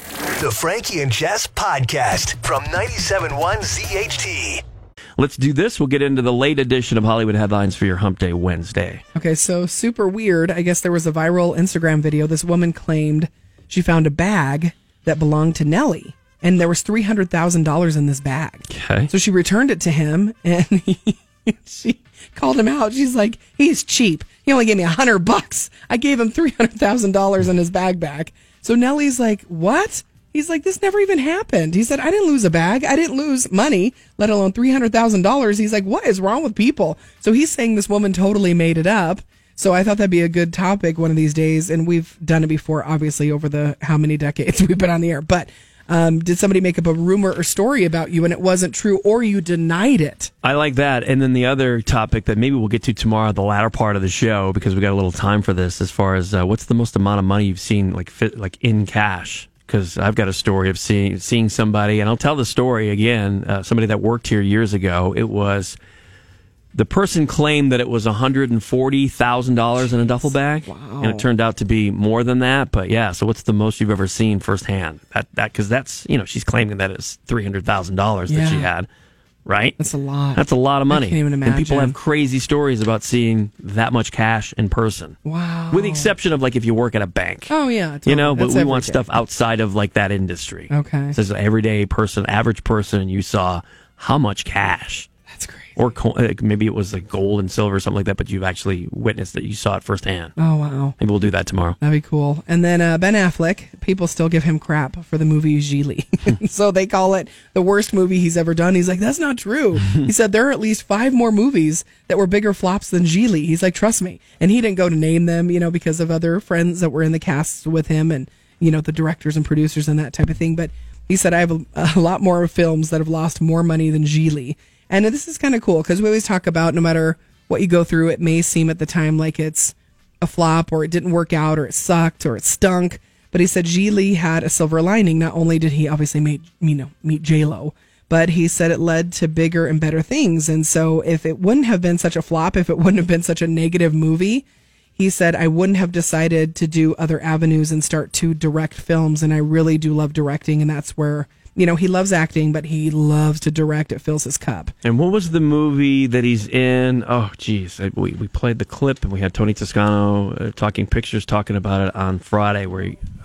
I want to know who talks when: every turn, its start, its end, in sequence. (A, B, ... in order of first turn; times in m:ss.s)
0:00.4-0:04.6 A
0:05.2-0:09.0 B
0:09.2-0:50.3 C
0:18.7-0:19.1 B
0:50.4-1:05.8 B
1:06.7-1:18.9 B
1:10.7-1:11.3 C
1:18.3-1:18.7 C
1:19.5-1:19.8 B
1:19.8-1:22.0 C
1:20.4-1:25.2 B
1:25.2-1:26.2 C
1:25.7-1:27.5 B
1:27.5-1:29.1 C
1:28.1-1:35.1 B
1:30.7-1:31.2 C
1:35.3-1:35.9 C
1:35.8-1:40.3 B
1:40.4-1:41.0 C
1:41.0-1:41.8 B
1:41.8-2:24.5 C
2:25.0-2:34.7 C
2:34.8-2:43.0 B